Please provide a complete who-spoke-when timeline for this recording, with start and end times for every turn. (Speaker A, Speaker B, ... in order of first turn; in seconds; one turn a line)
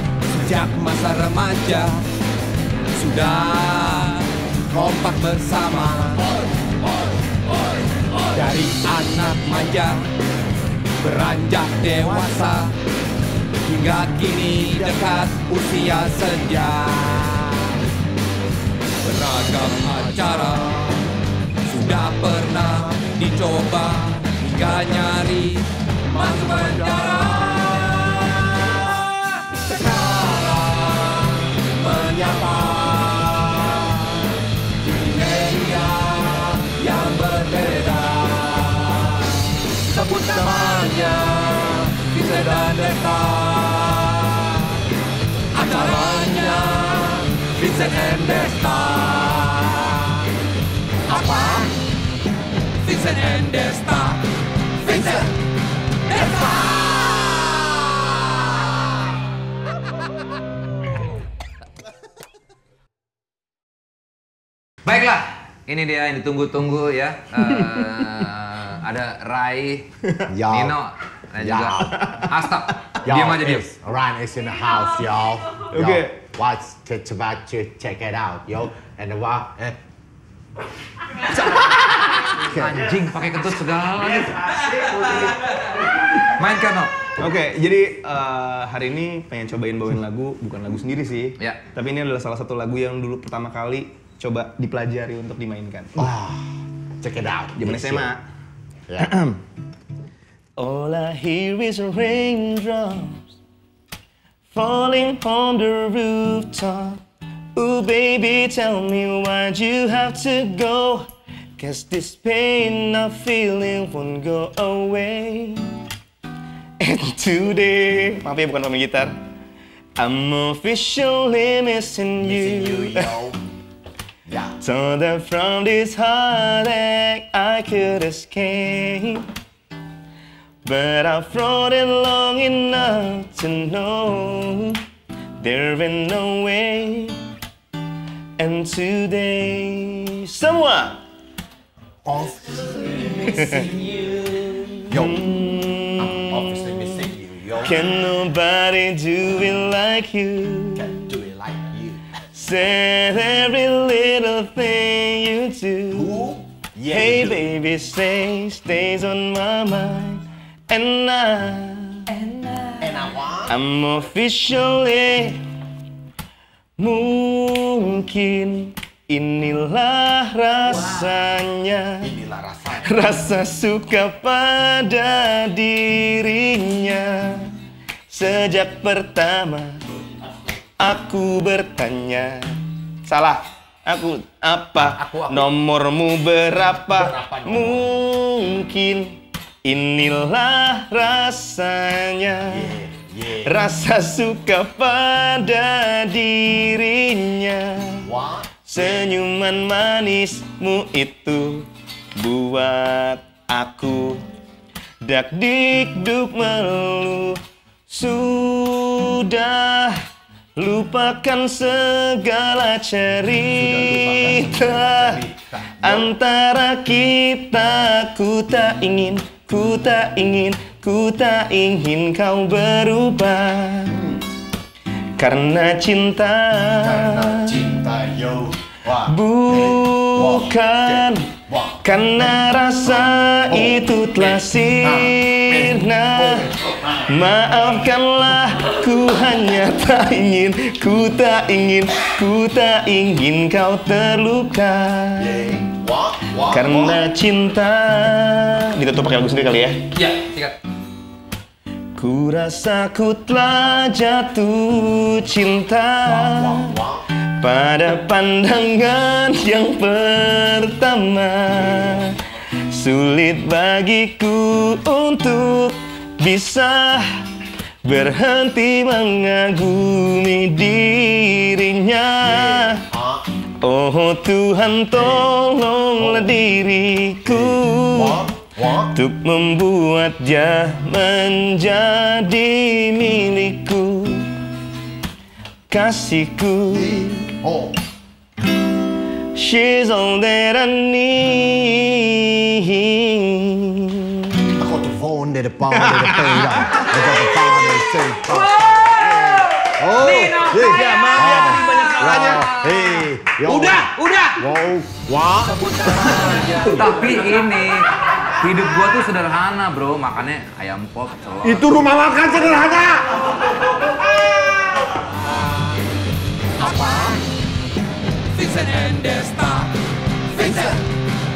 Speaker A: 0.3-2.1
Speaker A: 2.9-6.3
Speaker A: 8.2-10.1
Speaker A: 11.0-12.8
Speaker A: 13.6-17.9
Speaker A: 19.0-21.1
Speaker A: 21.6-44.8
Speaker A: 45.5-50.2
Speaker A: 51.1-51.7
Speaker A: 52.8-55.4
Speaker A: 56.1-57.8
Speaker B: 64.8-69.9
Speaker C: 70.3-70.8
Speaker B: 70.5-73.7
Speaker C: 71.4-72.1
Speaker C: 73.0-79.8
Speaker D: 75.7-76.2
Speaker D: 82.4-82.6
Speaker B: 82.5-85.3
Speaker B: 86.2-87.1
Speaker D: 87.2-96.1
Speaker C: 96.0-98.1
Speaker D: 97.6-98.2
Speaker D: 99.0-99.4
Speaker D: 100.6-103.4
Speaker D: 104.5-107.0
Speaker D: 107.5-115.8
Speaker D: 116.8-119.1
Speaker D: 120.0-123.1
Speaker C: 122.2-123.4
Speaker C: 124.3-124.6
Speaker D: 124.6-129.3
Speaker D: 130.7-134.8
Speaker D: 135.4-137.2
Speaker D: 138.4-141.0
Speaker C: 142.0-145.3
Speaker D: 143.2-143.7
Speaker D: 144.9-147.1
Speaker C: 146.0-147.9
Speaker D: 147.6-151.1
Speaker C: 150.8-152.0
Speaker D: 152.3-156.2
Speaker C: 155.9-157.4
Speaker D: 156.9-162.3
Speaker A: 162.3-162.7
Speaker C: 162.8-163.5
Speaker D: 163.5-165.4
Speaker D: 166.8-172.1
Speaker C: 172.0-172.9
Speaker D: 172.8-177.6
Speaker D: 178.1-179.8
Speaker D: 180.8-192.7
Speaker C: 186.9-187.9
Speaker C: 192.5-193.5
Speaker D: 193.4-198.1
Speaker C: 198.0-199.0
Speaker D: 198.7-204.2
Speaker D: 205.0-210.0
Speaker D: 210.6-215.2
Speaker C: 213.5-216.1
Speaker D: 215.8-224.0
Speaker C: 223.9-224.2
Speaker D: 225.2-227.6
Speaker C: 226.8-231.8
Speaker D: 229.1-245.5
Speaker C: 233.0-237.1
Speaker C: 245.2-247.0
Speaker D: 246.4-249.9
Speaker B: 250.0-250.6
Speaker D: 251.9-256.8
Speaker C: 256.1-257.1
Speaker D: 257.3-267.3
Speaker D: 267.9-272.8
Speaker C: 272.2-273.3
Speaker D: 273.6-278.2
Speaker C: 274.9-275.3
Speaker C: 276.0-276.3
Speaker C: 277.2-278.9
Speaker D: 278.9-284.4
Speaker D: 285.7-287.4
Speaker C: 286.7-287.8
Speaker D: 289.3-294.5
Speaker C: 294.6-305.6
Speaker D: 295.9-297.4
Speaker A: 298.7-302.4
Speaker D: 300.6-303.0
Speaker A: 303.5-304.4
Speaker A: 305.5-307.5
Speaker B: 306.2-311.7
Speaker C: 311.4-313.3
Speaker C: 316.6-317.0
Speaker A: 316.7-317.1
Speaker A: 318.4-319.8
Speaker A: 320.3-320.9